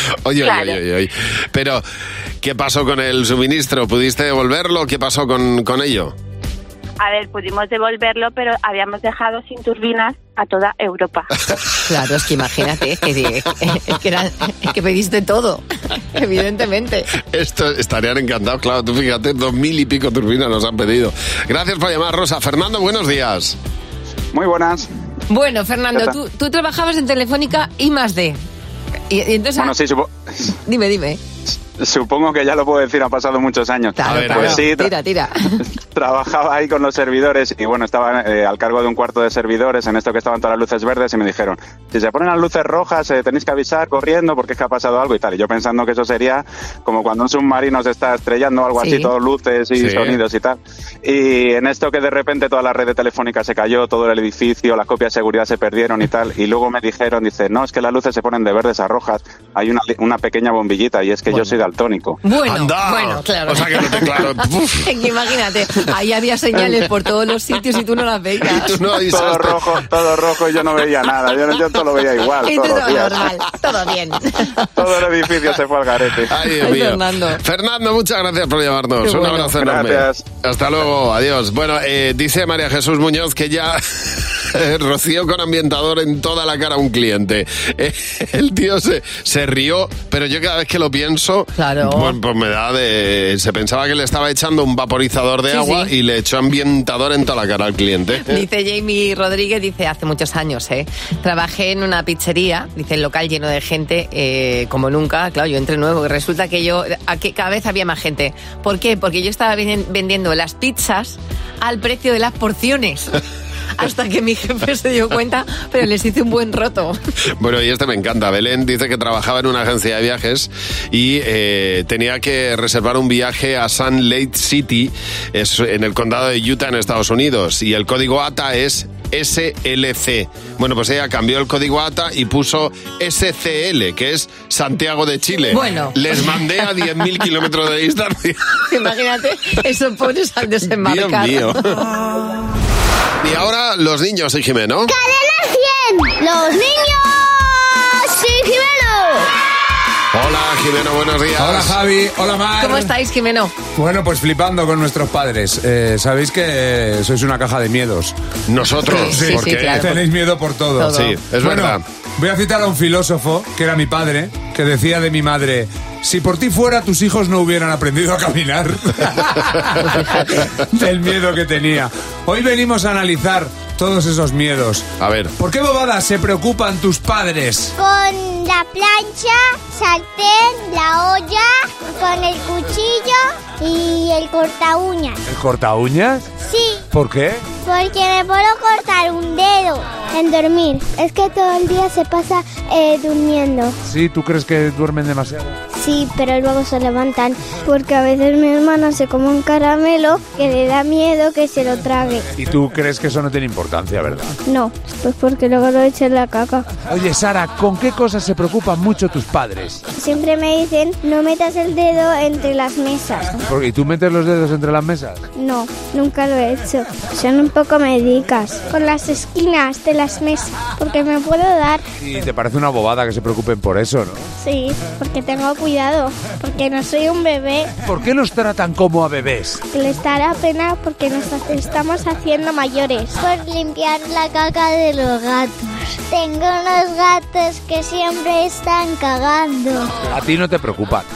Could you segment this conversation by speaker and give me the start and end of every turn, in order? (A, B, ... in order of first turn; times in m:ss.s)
0:00.2-0:01.8 A
0:00.4-0:00.8 B
0:02.4-0:06.1 A
0:07.0-0:11.3 B
0:11.8-0:17.1 C
0:17.3-0:23.6 A
0:24.3-0:24.9 D
0:25.3-0:28.4 C
0:29.1-0:29.7 C
0:29.6-0:30.1 D
0:30.6-0:31.2 C
0:31.8-0:34.9 D
0:34.0-0:35.5 C
0:34.0-0:34.7 A
0:35.9-1:02.2 D
0:48.8-0:49.1 C
0:49.8-0:50.2 A
1:02.2-1:08.8 C
1:02.4-1:04.9 A
1:08.4-1:09.8 A
1:09.1-1:13.2 D
1:12.4-1:14.6 C
1:14.8-1:16.3 D
1:16.2-1:38.4 A
1:16.5-1:17.4 C
1:19.1-1:20.2 D
1:31.6-1:32.2 C
1:35.5-1:35.9 C
1:38.2-1:53.2 C
1:53.8-1:57.0 C
1:57.4-2:18.5 A
2:15.5-2:16.0 C
2:18.7-2:21.6 C
2:20.8-2:21.8 A
2:23.2-2:24.9 A
2:24.9-2:29.3 E
2:30.1-2:31.8 A
2:31.4-2:32.9 F
2:32.6-2:33.5 C
2:33.8-2:38.1 F
2:38.5-2:39.9 A
2:38.8-2:40.0 C
2:39.1-2:57.7 F
2:40.8-2:41.1 C
2:40.9-2:41.8 A
2:55.0-2:55.3 A
2:57.8-3:05.2 E
3:05.2-3:06.3 F
3:06.4-3:06.8 E
3:06.9-3:07.4 F
3:07.6-3:13.8 E
3:13.8-3:15.6 F
3:15.7-3:22.2 E
3:22.3-3:24.4 F
3:24.4-3:26.6 E
3:26.8-3:29.8 F
3:30.0-3:33.4 E
3:33.4-3:35.2 F
3:35.4-3:41.8 E
3:42.0-3:44.3 F
3:44.4-3:47.7 E
3:47.8-3:49.6 F
3:49.7-3:59.9 E
4:00.1-4:01.0 F